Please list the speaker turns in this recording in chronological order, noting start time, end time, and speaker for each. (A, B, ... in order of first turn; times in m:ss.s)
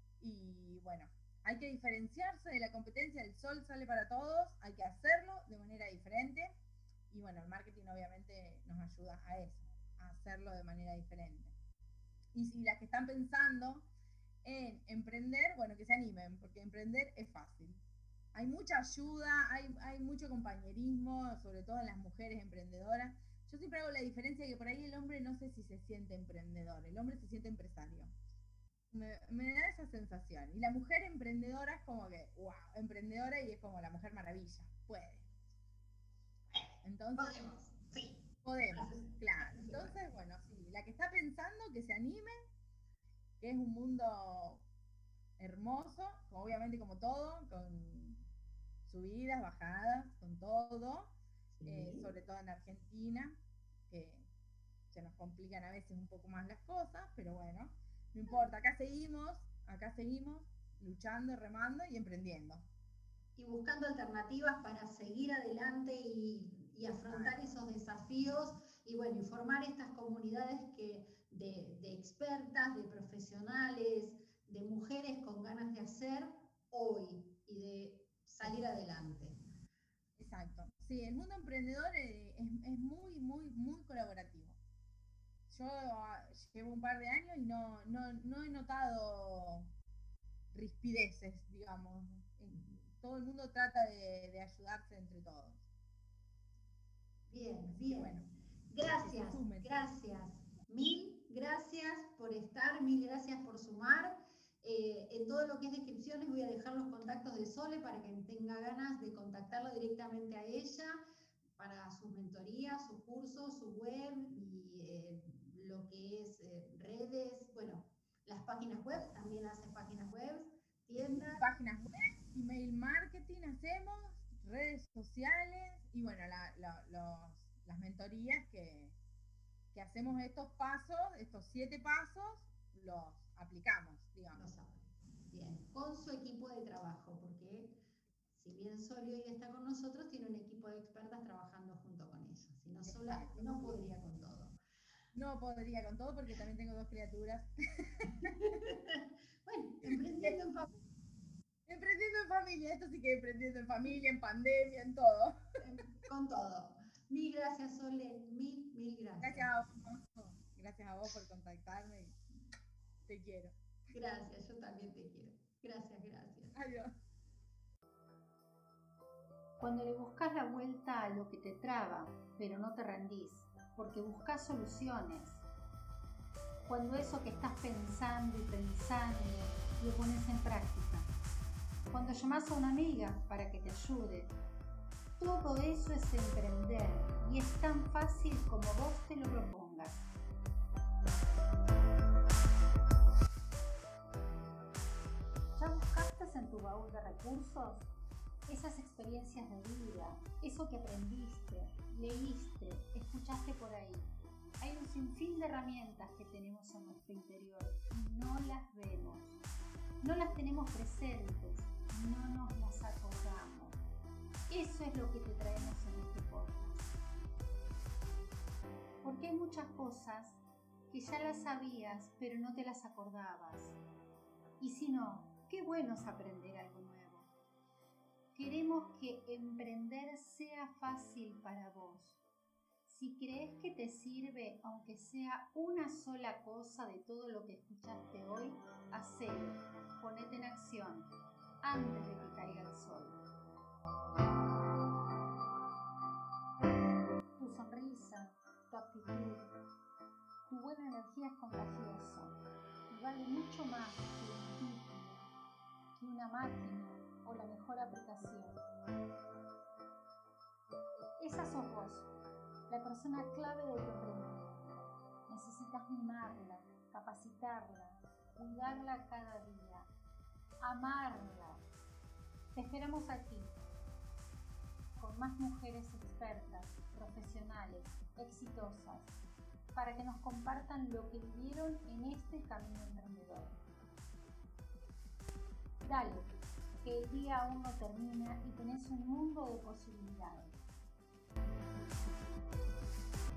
0:00.2-0:06.5 A
0:07.1-0:11.5 A
0:12.3-0:13.9 A
0:14.4-0:17.8 A
0:18.3-0:28.2 A
0:28.9-0:35.2 A
0:36.8-0:37.4 A
0:37.2-0:40.0 B
0:38.4-0:42.3 A
0:43.4-0:44.6 A
0:45.4-0:48.3 A
0:48.8-0:51.1 A
0:51.6-0:52.1 B
0:51.6-0:53.4 A
0:53.9-0:54.3 A
0:54.9-1:02.7 A
1:03.4-1:19.4 B
1:07.1-1:07.5 A
1:20.2-1:24.6 A
1:25.5-1:29.7 A
1:30.5-1:35.6 A
1:32.5-1:32.8 B
1:37.3-1:51.0 B
1:37.7-1:38.2 A
1:38.8-1:39.7 A
1:51.6-2:01.5 B
2:01.4-2:08.9 A
2:09.7-2:14.4 A
2:14.3-2:17.8 B
2:18.4-2:24.6 B
2:22.8-2:23.8 A
2:25.1-2:28.3 A
2:28.2-2:30.7 B
2:29.9-2:30.3 A
2:31.7-2:35.4 A
2:35.6-2:39.5 B
2:39.2-2:42.2 A
2:43.1-2:43.5 A
2:43.9-2:46.6 B
2:46.5-2:46.9 A
2:49.6-2:55.4 C
2:56.7-3:01.1 C
3:01.9-3:04.3 C
3:05.2-3:10.1 C
3:15.6-3:17.9 C
3:18.5-3:24.1 C
3:24.6-3:29.4 C
3:30.0-3:33.8 C
3:34.5-3:36.9 C
3:39.0-3:43.8 C
3:44.6-3:47.3 C
3:48.3-3:52.2 C
3:52.9-4:01.1 C
4:01.6-4:03.2 C
4:07.4-4:09.5 C
4:10.5-4:12.4 C
4:12.9-4:15.3 C
4:16.0-4:18.6 C
4:21.2-4:22.1 C
4:22.7-4:29.9 C
4:30.6-4:31.6 C
4:32.5-4:33.6 C
4:35.0-4:39.1 C
4:39.7-4:43.6 C
4:45.8-4:46.3 C
4:46.8-4:50.6 C